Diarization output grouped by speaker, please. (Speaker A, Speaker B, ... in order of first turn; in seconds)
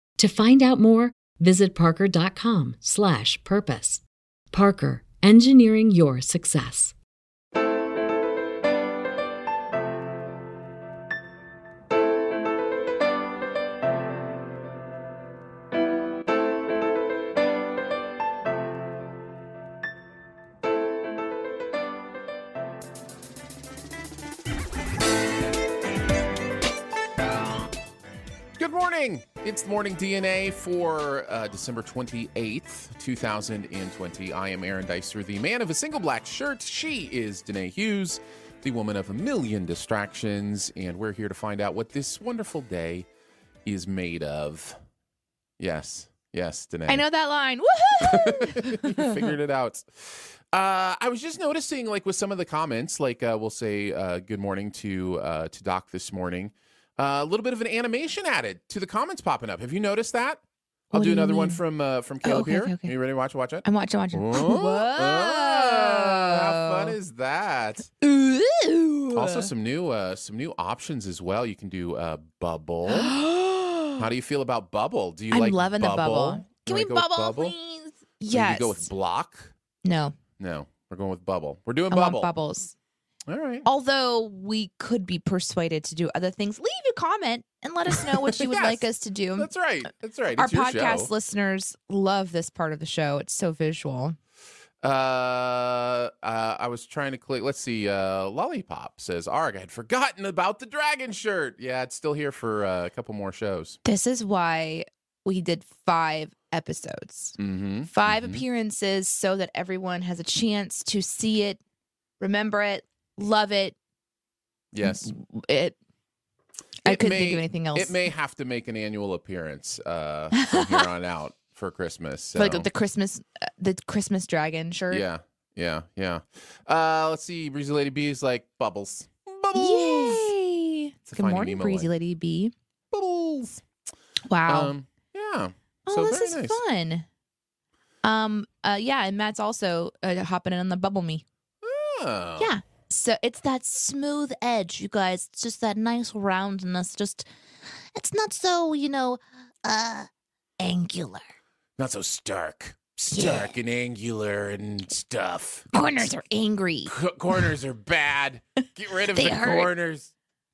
Speaker A: 0.2-7.0
Speaker B: 28.6-43.1, 43.6-44.8, 45.6-47.0, 48.0-67.9, 69.1-73.2, 74.0-77.5, 78.3-79.5, 80.4-82.3, 83.3-83.7, 87.9-88.8, 89.3-91.1, 94.8-103.8, 107.4-108.4, 114.7-115.1, 116.8-122.7, 124.9-130.3, 131.1-131.9, 132.9-133.6, 134.4-136.6, 141.6-142.5, 151.8-155.7, 156.9-160.1
Speaker C: 46.9-49.2, 60.9-61.6, 62.2-62.9, 63.6-67.0, 68.0-69.5, 72.9-74.0, 75.3-78.9, 79.8-80.2, 81.9-82.7, 83.6-89.5, 90.4-94.2, 103.8-107.4, 107.9-111.6, 112.2-113.8, 114.8-115.8, 116.8-118.1, 120.3-120.8, 122.3-125.0, 129.5-132.5, 134.2-134.7, 135.8-137.1, 138.0-141.2, 142.4-147.2, 147.9-151.3, 153.1-153.5, 155.7-157.4, 158.6-159.7